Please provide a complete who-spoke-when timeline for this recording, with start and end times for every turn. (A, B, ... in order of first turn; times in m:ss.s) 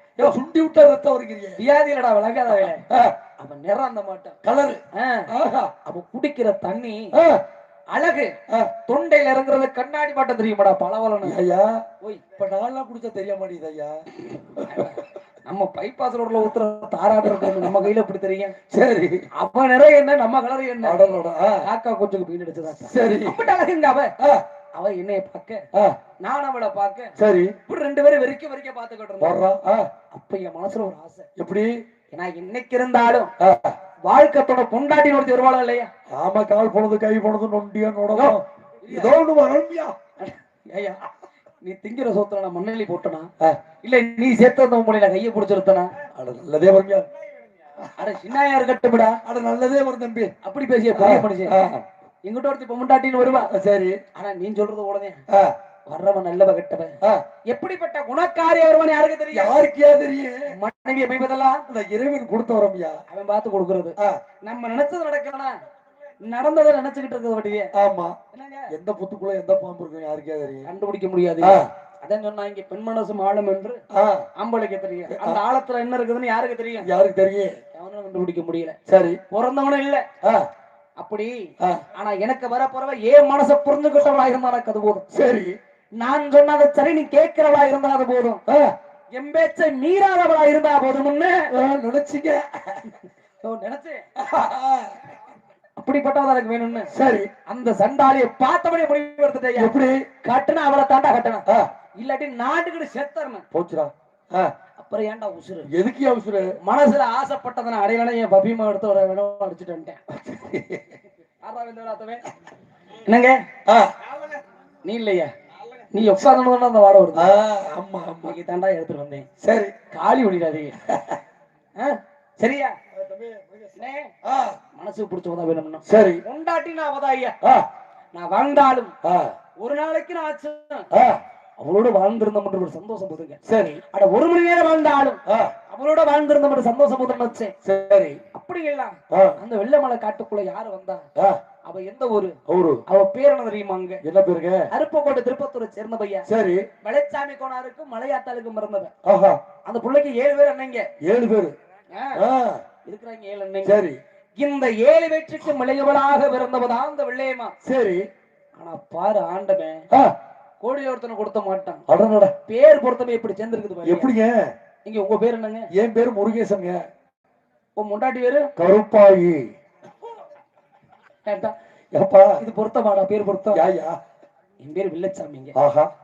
0:00.2-0:01.6 A
0:01.6-0:02.8 B
0:02.6-0:03.2 A
0:03.4-0:04.4 B
0:04.4-0:05.7 A
0:04.9-0:05.3 B
0:05.8-0:07.1 B
0:07.2-0:07.4 A
0:07.9-0:08.3 B
0:08.8-0:11.4 B
0:11.2-0:11.8 A
0:12.3-0:14.0 A
0:14.6-0:15.0 A
0:14.6-0:18.5 B
0:17.2-0:17.8 A
0:18.7-0:19.2 A
0:19.4-0:21.0 B
0:20.8-0:21.6 A
0:21.6-0:24.1 B
0:22.8-0:23.4 A
0:24.7-0:25.6 B
0:26.2-0:27.1 B
0:27.2-0:27.5 A
0:27.6-0:29.4 B
0:29.2-0:29.9 A
0:30.1-0:31.3 B
0:31.4-0:31.7 A
0:32.1-0:33.3 B
0:33.4-0:33.8 A
0:34.0-0:35.9 B
0:36.1-0:39.9 A
0:38.1-0:39.2 B
0:40.2-0:41.0 B
0:41.6-0:43.3 B
0:43.8-0:45.9 B
0:46.1-0:47.0 A
0:48.0-0:49.2 B
0:49.2-0:50.3 A
0:50.4-0:51.6 B
0:50.9-0:51.8 A
0:52.2-0:53.5 B
0:53.4-0:54.0 A
0:54.1-0:55.2 B
0:55.9-0:57.0 B
0:57.5-0:59.6 B
0:59.3-1:00.4 A
1:00.5-1:01.6 B
1:01.7-1:03.0 A
1:03.1-1:05.6 B
1:06.2-1:07.7 B
1:07.7-1:08.2 A
1:08.3-1:08.7 B
1:08.7-1:10.7 A
1:10.6-1:13.8 B
1:11.4-1:11.7 A
1:13.9-1:14.3 A
1:14.4-1:16.9 B
1:15.1-1:15.4 A
1:16.8-1:17.5 A
1:17.7-1:18.8 B
1:18.9-1:19.2 A
1:19.3-1:20.0 B
1:20.2-1:20.5 A
1:21.0-1:21.3 B
1:21.9-1:25.0 B
1:25.1-1:25.6 A
1:26.0-1:28.4 B
1:28.5-1:28.7 A
1:29.1-1:31.5 B
1:31.5-1:33.0 A
1:32.9-1:34.0 B
1:34.2-1:35.0 A
1:35.8-1:36.9 B
1:36.9-1:37.3 A
1:37.5-1:39.7 B
1:39.6-1:40.0 A
1:40.2-1:41.4 B
1:42.0-1:43.4 B
1:43.5-1:44.5 A
1:44.8-1:45.7 B
1:45.7-1:46.5 A
1:46.6-1:50.0 B
1:50.2-1:51.0 A
1:51.4-1:52.2 B
1:53.0-1:53.4 B
1:53.6-1:53.9 A
1:54.8-1:55.3 B
1:55.9-1:57.3 B
1:57.1-1:58.4 A
1:58.2-1:59.2 B
1:59.4-1:59.8 A
1:59.9-2:00.8 B
2:00.9-2:01.2 A
2:01.8-2:02.8 B
2:02.9-2:04.6 A
2:03.8-2:04.1 B
2:04.7-2:07.4 B
2:05.8-2:06.2 A
2:08.1-2:08.9 B
2:09.0-2:09.3 A
2:09.6-2:10.9 B
2:10.9-2:11.2 A
2:11.6-2:13.4 B
2:13.4-2:13.8 A
2:13.9-2:17.5 B
2:15.2-2:15.5 A
2:17.6-2:18.2 A
2:18.3-2:21.0 B
2:19.1-2:19.4 A
2:21.6-2:24.0 B
2:22.5-2:22.8 A
2:24.0-2:24.7 A
2:24.7-2:26.2 B
2:26.3-2:26.7 A
2:26.8-2:28.9 B
2:29.0-2:29.4 A
2:29.6-2:30.9 B
2:31.0-2:31.5 A
2:31.9-2:32.2 B
2:32.1-2:32.6 A
2:32.8-2:33.8 B
2:33.6-2:34.0 A
2:34.4-2:37.5 B
2:37.6-2:38.1 A
2:38.6-2:39.8 B
2:40.6-2:41.8 B
2:41.9-2:42.3 A
2:42.5-2:44.1 B
2:43.8-2:44.5 A
2:44.8-2:45.7 B
2:45.7-2:46.8 A
2:47.8-2:48.5 B
2:48.6-2:49.5 A
2:51.2-2:51.5 B
2:51.9-2:52.4 A
2:52.4-2:53.6 B
2:53.5-2:54.0 A
2:54.6-2:55.6 B
2:55.6-2:55.9 A